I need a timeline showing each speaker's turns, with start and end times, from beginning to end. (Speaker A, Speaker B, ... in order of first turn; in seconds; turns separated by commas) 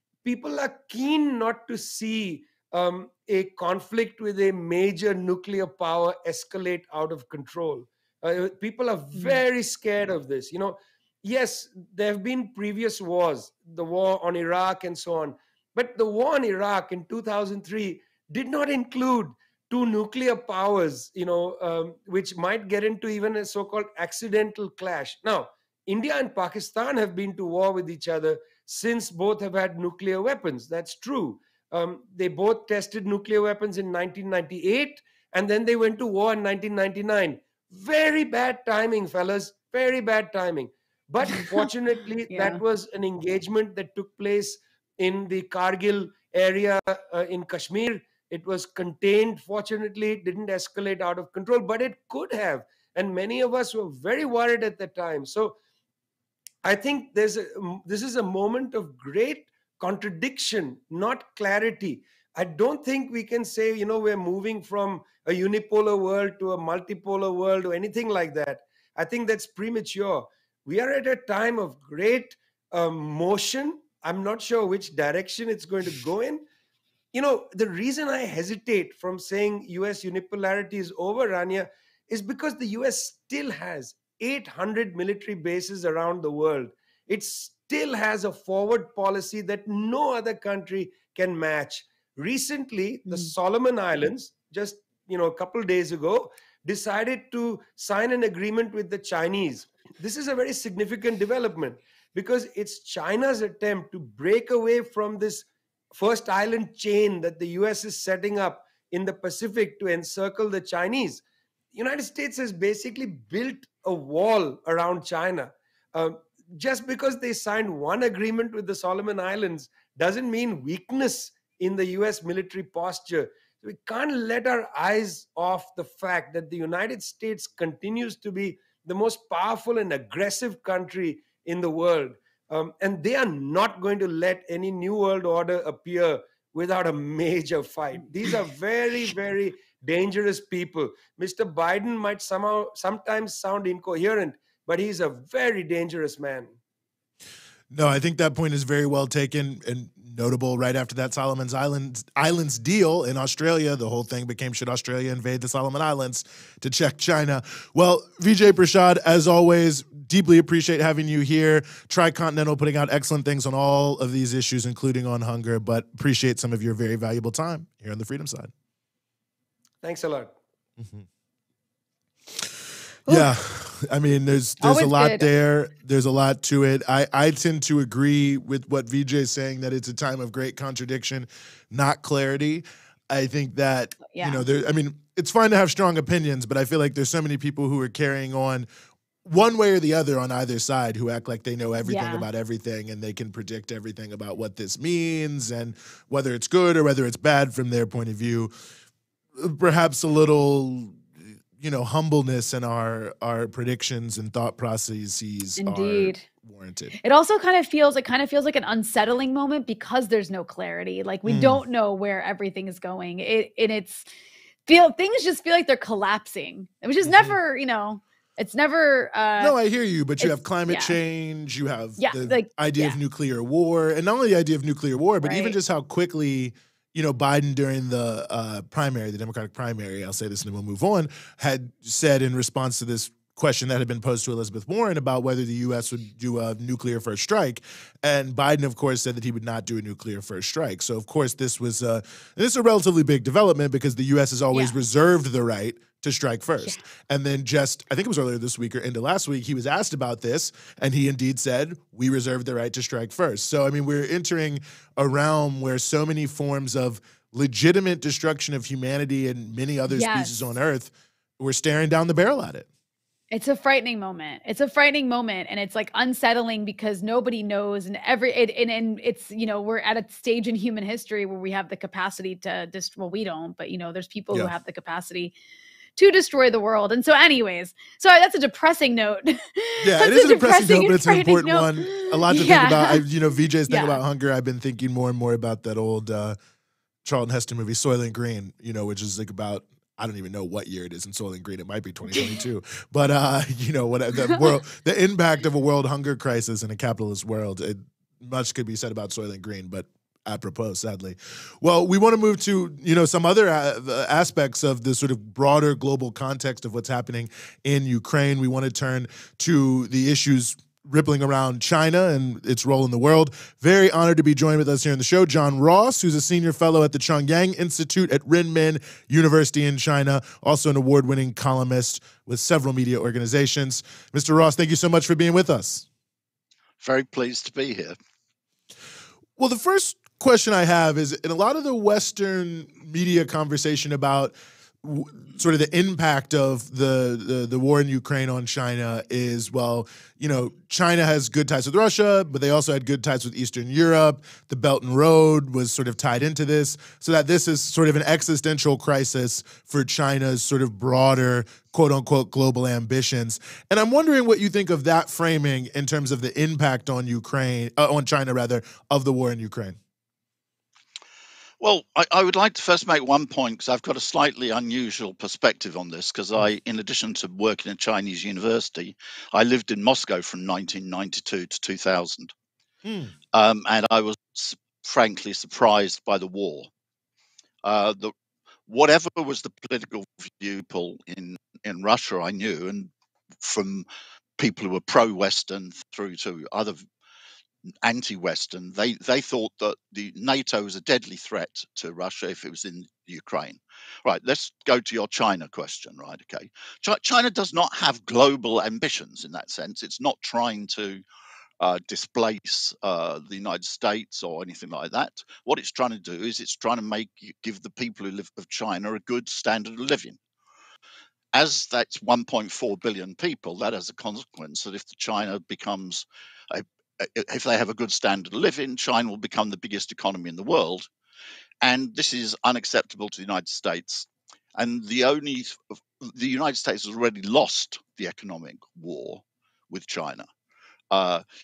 Speaker A: 0.2-55.5, Speaker B: 9.1-9.4, Speaker B: 41.3-41.6, Speaker B: 42.3-42.6, Speaker A: 56.6-76.4, Speaker A: 77.1-146.5, Speaker B: 93.1-93.3, Speaker C: 147.7-168.5, Speaker A: 169.8-170.3, Speaker C: 170.8-171.1, Speaker C: 173.1-188.7, Speaker B: 174.6-175.3, Speaker B: 184.1-184.5, Speaker C: 189.2-198.5, Speaker B: 191.8-192.3, Speaker C: 199.4-201.0, Speaker C: 201.6-206.9, Speaker B: 205.6-206.2, Speaker B: 207.0-214.1, Speaker C: 211.2-211.6, Speaker B: 214.7-219.6, Speaker C: 217.0-217.3, Speaker C: 219.4-262.7, Speaker B: 220.2-221.0, Speaker B: 222.0-223.0, Speaker B: 225.2-225.6, Speaker B: 259.9-260.5, Speaker B: 263.3-275.3, Speaker B: 275.9-283.0, Speaker C: 279.8-286.4, Speaker B: 283.7-284.0, Speaker C: 287.0-325.9, Speaker D: 326.8-328.0, Speaker C: 329.4-359.8, Speaker D: 361.6-372.3, Speaker C: 372.8-373.1, Speaker D: 373.3-376.7, Speaker D: 377.6-378.1, Speaker D: 378.7-382.9, Speaker D: 383.4-383.9, Speaker D: 384.4-386.8, Speaker D: 387.8-401.0, Speaker D: 401.6-410.2, Speaker D: 411.3-420.9, Speaker D: 421.6-430.3, Speaker D: 430.9-431.2